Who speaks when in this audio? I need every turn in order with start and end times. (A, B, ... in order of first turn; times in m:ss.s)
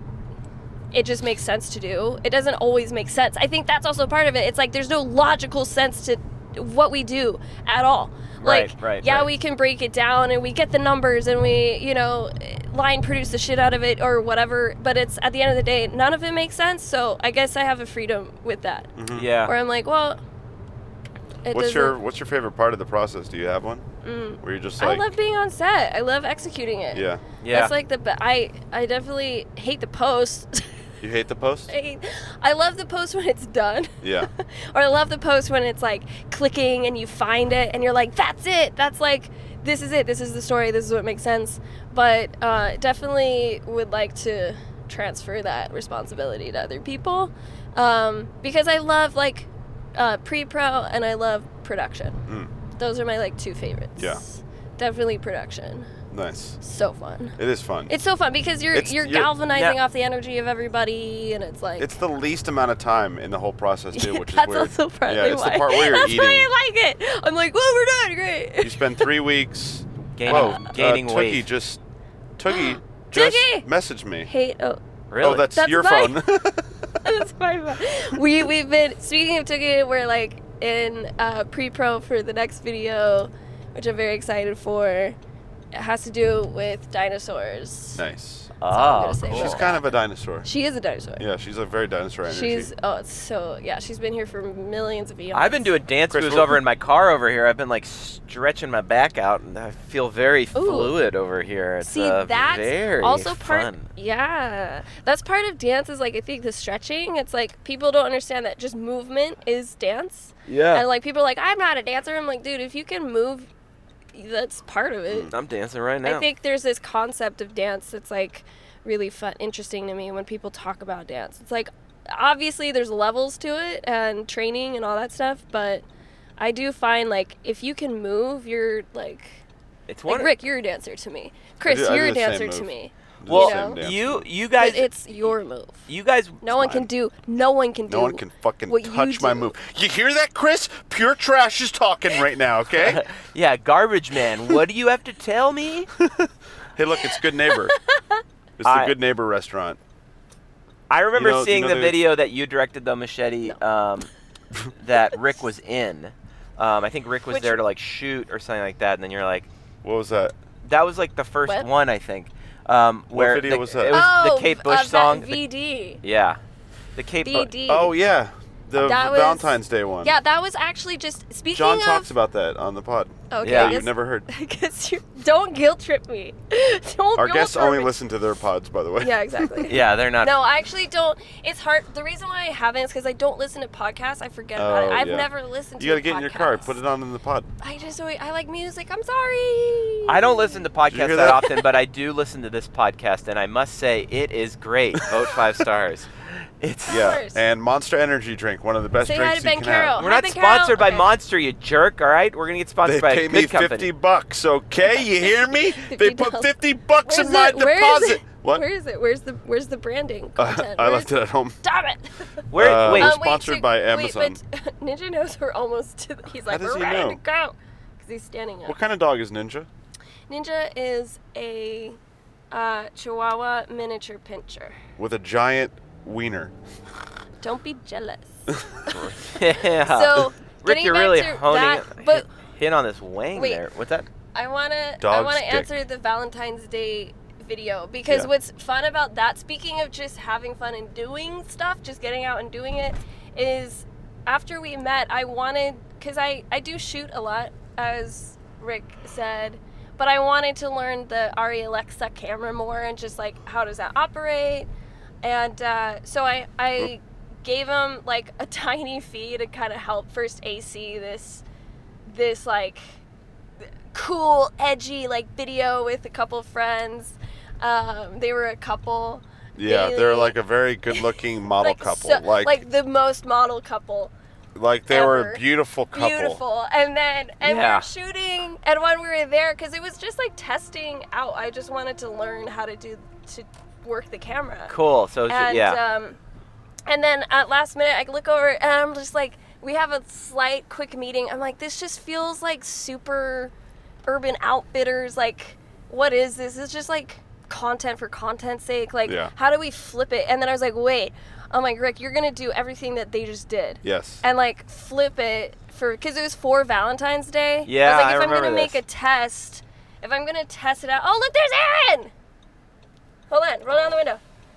0:00.9-0:18.9 A
0:08.4-0:09.3 B
0:19.0-0:19.3 C
0:19.1-0:19.5 B
0:19.4-0:20.2 A
0:21.4-0:22.0 A
0:21.5-0:23.8 C
0:24.0-0:30.9 A
0:24.4-0:25.0 C
0:26.9-0:27.2 C
0:27.4-0:27.7 B
0:31.0-0:31.7 C
0:31.7-0:52.2 A
0:34.0-0:34.3 C
0:52.8-0:55.9 A
0:54.0-0:54.2 C
0:56.1-0:56.6 C
0:56.6-0:57.4 A
0:57.4-0:57.9 C
0:57.9-1:01.9 A
0:58.7-0:59.3 C
1:01.8-1:06.5 C
1:03.9-1:09.1 A
1:08.6-1:11.8 C
1:10.2-1:11.4 B
1:10.3-1:10.6 A
1:12.4-1:14.3 C
1:12.5-1:13.7 A
1:14.2-1:16.2 A
1:15.1-1:15.5 B
1:15.2-1:16.7 C
1:17.0-1:25.2 A
1:25.7-1:28.0 A
1:28.0-1:28.5 C
1:28.6-1:29.6 B
1:28.7-1:29.9 A
1:29.3-1:30.5 C
1:30.4-1:31.2 A
1:31.2-1:32.7 C
1:32.3-1:35.7 A
1:35.3-1:43.9 B
1:36.1-1:36.6 C
1:40.5-1:40.9 A
1:41.8-1:53.5 A
1:50.4-1:50.8 B
1:54.1-1:55.3 A
1:55.3-1:56.2 B
1:56.0-2:05.8 A
2:06.4-2:09.4 A
2:09.9-2:10.3 B
2:10.1-2:13.8 A
2:11.6-2:14.3 C
2:13.3-2:15.3 B
2:14.6-2:15.8 A
2:15.9-2:16.4 B
2:16.4-2:19.5 A
2:16.6-2:16.8 C
2:17.9-2:23.0 C
2:22.8-2:25.9 B
2:26.0-2:27.7 C
2:27.8-2:28.2 A
2:28.6-2:29.8 C
2:28.6-2:28.9 B
2:30.9-2:34.1 B
2:31.1-2:32.0 C
2:34.8-2:39.5 B
2:37.3-2:37.6 A
2:39.8-2:40.3 C
2:40.6-2:45.4 B
2:43.1-2:44.0 C
2:43.9-2:46.0 A
2:46.0-2:46.4 B
2:47.0-2:47.5 B
2:47.2-2:47.9 A
2:47.7-2:50.1 C
2:48.8-2:52.1 A
2:51.5-2:54.3 C
2:53.3-2:58.0 A
2:53.4-2:53.8 B
2:57.2-2:59.7 C
2:59.0-3:06.8 A
2:59.7-3:00.4 B
3:04.6-3:07.5 C
3:07.6-3:10.6 A
3:10.1-3:17.2 B
3:10.9-3:11.5 C
3:16.9-3:17.4 A
3:16.9-3:20.0 C
3:19.0-3:21.1 A
3:20.0-3:23.9 B
3:22.8-3:28.6 C
3:25.8-3:38.8 A
3:30.4-3:31.6 C
3:32.5-3:33.2 B
3:32.6-3:34.4 C
3:36.5-3:37.2 C
3:38.6-3:39.7 C
3:40.3-3:42.0 A
3:42.5-3:44.8 A
3:45.0-3:46.5 C
3:47.4-3:52.3 A
3:48.9-3:54.1 B
3:53.3-3:53.6 A
3:54.3-4:14.7 A
3:55.0-3:55.7 C
4:15.2-4:21.4 A
4:22.0-4:23.0 A
4:23.9-4:30.4 A
4:29.6-4:32.6 C
4:31.6-4:34.1 A
4:34.5-4:36.4 C
4:34.9-4:44.7 A
4:37.4-4:37.8 B
4:44.7-4:45.8 B
4:45.3-4:46.2 A
4:46.9-4:53.5 A
4:54.0-5:12.1 A
4:59.0-4:59.3 C
5:03.8-5:04.2 C
5:07.6-5:08.8 B
5:13.3-5:14.2 A